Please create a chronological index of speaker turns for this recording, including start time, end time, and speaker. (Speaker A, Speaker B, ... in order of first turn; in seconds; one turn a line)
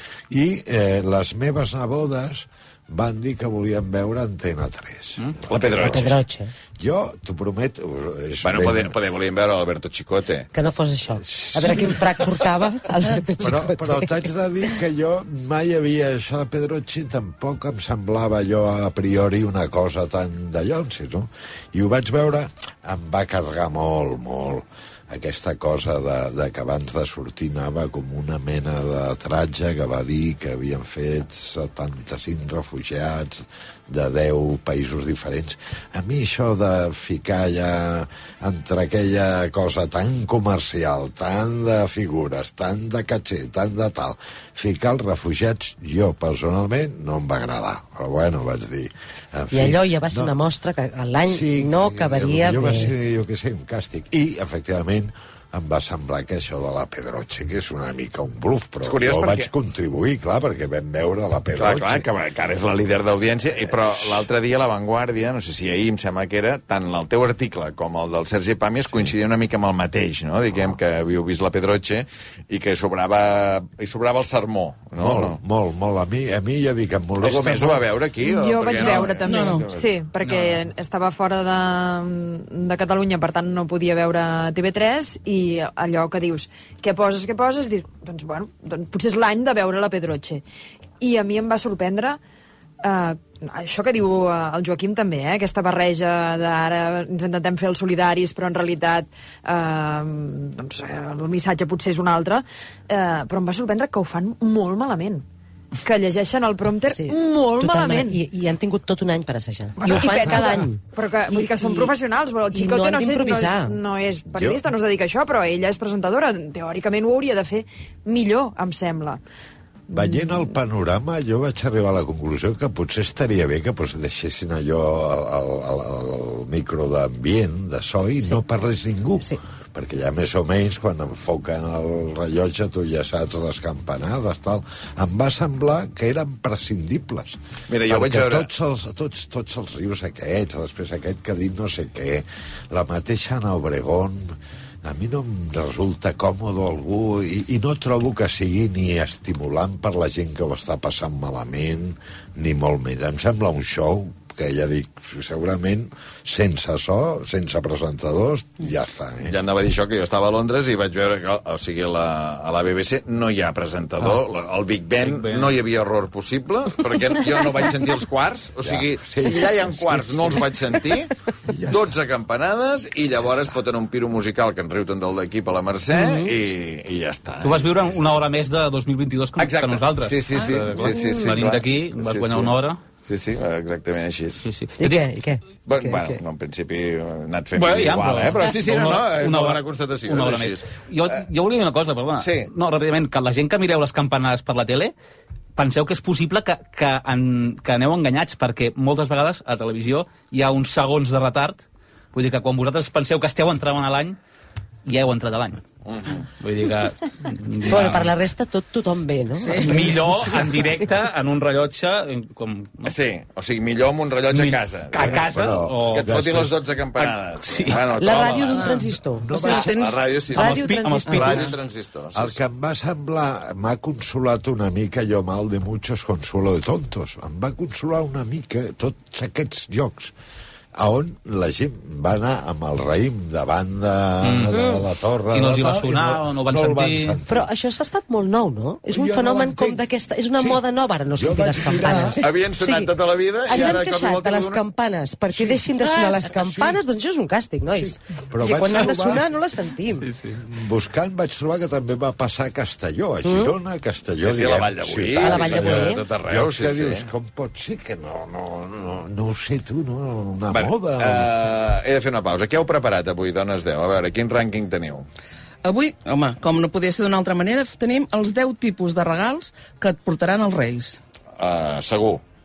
Speaker A: 0.3-6.2
Speaker B: 5.5-6.2
Speaker C: 5.8-6.5
Speaker A: 6.8-8.9
Speaker B: 8.4-10.5
Speaker C: 10.5-14.7
Speaker A: 11.2-12.0
Speaker A: 13.4-50.4
Speaker C: 49.5-52.9
Speaker A: 51.3-62.0
Speaker B: 58.8-59.5
Speaker B: 61.6-75.4
Speaker A: 63.7-64.2
Speaker A: 74.9-77.9
Speaker B: 77.2-79.9
Speaker D: 78.2-90.4
Speaker A: 78.8-79.3
Speaker E: 79.2-79.7
Speaker F: 80.2-80.6
Speaker D: 91.0-92.2
Speaker D: 92.8-105.2
Speaker D: 105.8-108.2
Speaker C: 106.9-111.9
Speaker D: 109.8-119.2
Speaker A: 110.1-110.6
Speaker C: 112.5-113.8
Speaker A: 114.3-114.6
Speaker D: 119.9-120.5
Speaker A: 119.9-159.4
Speaker B: 137.7-138.5
Speaker B: 159.2-171.1
Speaker F: 165.0-165.5
Speaker A: 168.6-170.8
Speaker A: 171.5-172.0
Speaker B: 171.7-178.1
Speaker C: 175.9-176.3
Speaker F: 177.4-182.8
Speaker B: 179.4-184.5
Speaker E: 180.3-180.9
Speaker F: 184.4-185.0
Speaker C: 184.8-186.2
Speaker B: 185.6-190.7
Speaker F: 187.5-194.9
Speaker B: 192.2-192.5
Speaker F: 195.6-204.2
Speaker F: 204.8-205.6
Speaker B: 205.8-206.3
Speaker F: 206.3-208.1
Speaker C: 207.7-210.4
Speaker E: 209.4-210.0
Speaker F: 209.5-212.9
Speaker B: 212.8-215.3
Speaker F: 214.3-216.1
Speaker A: 215.0-216.6
Speaker B: 215.9-218.8
Speaker F: 217.0-217.9
Speaker C: 217.9-219.3
Speaker E: 218.4-220.5
Speaker A: 219.2-219.8
Speaker B: 219.4-222.4
Speaker F: 220.3-221.5
Speaker C: 220.4-221.4
Speaker E: 221.1-221.4
Speaker A: 222.1-230.1
Speaker A: 230.8-237.5
Speaker F: 234.2-234.5
Speaker C: 234.5-234.8
Speaker F: 235.3-237.2
Speaker C: 237.3-242.9
Speaker A: 238.9-239.8
Speaker A: 240.4-240.6
Speaker A: 241.1-242.2
Speaker B: 242.2-244.6
Speaker C: 243.4-250.1
Speaker A: 243.5-243.8
Speaker A: 245.3-246.8
Speaker A: 247.8-249.3
Speaker F: 250.0-250.4
Speaker A: 250.4-261.3
Speaker C: 253.2-253.6
Speaker B: 254.2-257.1
Speaker C: 255.2-256.0
Speaker B: 260.5-265.1
Speaker E: 265.6-271.0
Speaker B: 271.4-272.2